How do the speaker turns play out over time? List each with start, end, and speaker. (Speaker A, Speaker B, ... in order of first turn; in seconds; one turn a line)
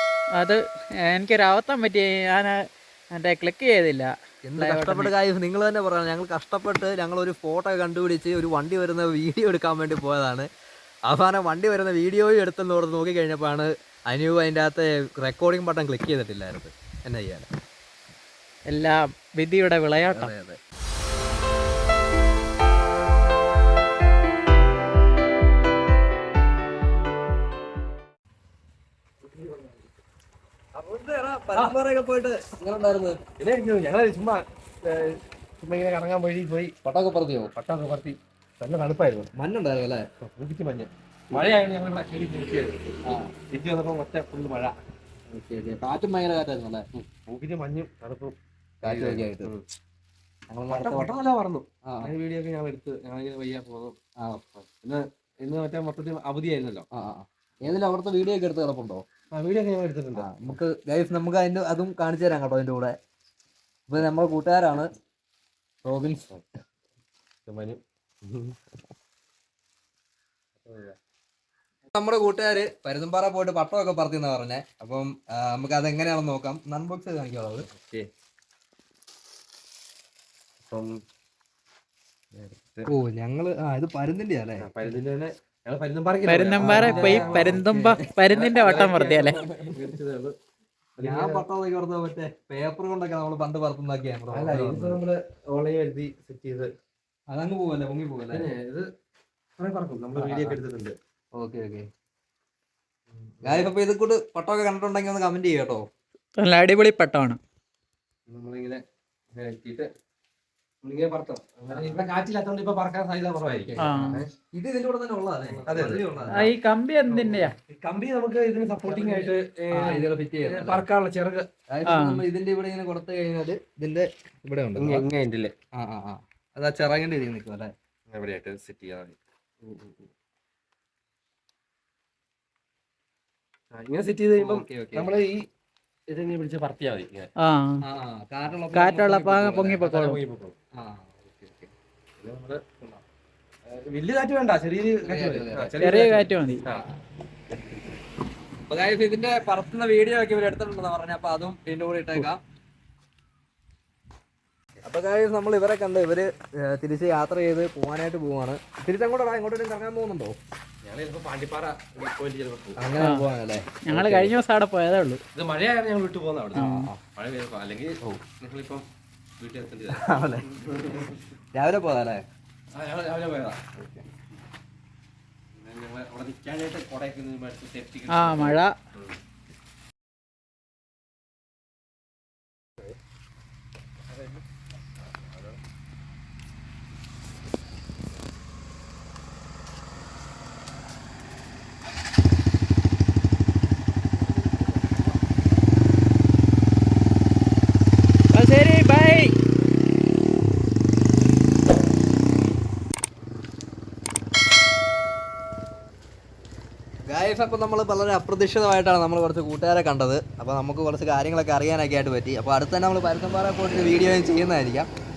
Speaker A: 0.4-2.5
Speaker A: 3.1-5.1
Speaker B: 4.5-10.5
Speaker B: 11.1-17.4
Speaker A: 18.7-20.3
Speaker B: 20.1-20.6
Speaker C: 29.2-29.8
Speaker B: 30.8-33.2
Speaker C: 33.4-36.7
Speaker B: 36.8-37.5
Speaker C: 37.5-39.3
Speaker B: 39.4-40.0
Speaker C: 40.2-43.0
Speaker B: 43.0-43.3
Speaker C: 43.5-44.7
Speaker B: 45.3-46.9
Speaker C: 47.0-49.6
Speaker B: 48.8-49.5
Speaker B: 50.5-51.1
Speaker C: 50.7-53.9
Speaker B: 51.8-52.1
Speaker B: 54.2-54.6
Speaker C: 54.7-56.8
Speaker B: 56.9-59.0
Speaker C: 59.3-60.6
Speaker B: 60.1-62.9
Speaker B: 63.9-64.9
Speaker B: 65.8-66.3
Speaker C: 67.5-68.5
Speaker C: 70.6-71.0
Speaker B: 71.9-77.7
Speaker C: 77.7-78.1
Speaker C: 80.6-80.9
Speaker C: 82.3-82.9
Speaker B: 82.9-84.7
Speaker C: 84.6-87.6
Speaker A: 86.2-89.4
Speaker B: 86.6-88.0
Speaker C: 88.3-90.3
Speaker B: 88.6-89.9
Speaker C: 91.0-91.4
Speaker B: 91.0-95.0
Speaker C: 94.3-96.7
Speaker B: 97.3-98.5
Speaker C: 98.2-98.9
Speaker C: 99.6-101.0
Speaker B: 100.2-100.6
Speaker B: 101.3-101.9
Speaker C: 103.1-103.7
Speaker B: 103.4-105.8
Speaker A: 106.4-107.4
Speaker C: 108.3-108.8
Speaker C: 109.3-109.9
Speaker C: 110.8-114.3
Speaker B: 111.7-112.0
Speaker B: 113.5-116.5
Speaker A: 113.8-114.2
Speaker C: 115.6-116.4
Speaker A: 116.3-117.5
Speaker C: 117.3-121.5
Speaker B: 118.8-120.8
Speaker B: 121.7-125.0
Speaker A: 121.8-122.2
Speaker C: 124.8-125.5
Speaker B: 125.8-127.7
Speaker C: 128.1-130.1
Speaker C: 133.7-135.4
Speaker B: 134.4-135.1
Speaker C: 136.1-137.3
Speaker A: 137.4-137.8
Speaker B: 137.8-139.1
Speaker A: 138.7-140.2
Speaker C: 138.9-140.5
Speaker B: 140.8-141.7
Speaker C: 142.2-143.0
Speaker C: 143.7-146.8
Speaker B: 145.0-146.1
Speaker A: 145.8-146.6
Speaker B: 148.7-152.4
Speaker B: 154.8-160.3
Speaker C: 160.8-162.8
Speaker B: 162.8-164.3
Speaker A: 163.0-163.3
Speaker A: 163.8-165.2
Speaker C: 165.3-168.8
Speaker A: 166.5-166.9
Speaker B: 166.6-167.0
Speaker C: 169.4-171.2
Speaker B: 169.9-170.4
Speaker B: 171.5-172.2
Speaker C: 172.7-173.7
Speaker B: 173.8-174.0
Speaker C: 175.6-179.2
Speaker A: 178.1-178.7
Speaker C: 184.1-184.4
Speaker C: 185.1-185.6
Speaker C: 194.2-195.0
Speaker A: 198.3-199.3
Speaker B: 207.0-214.9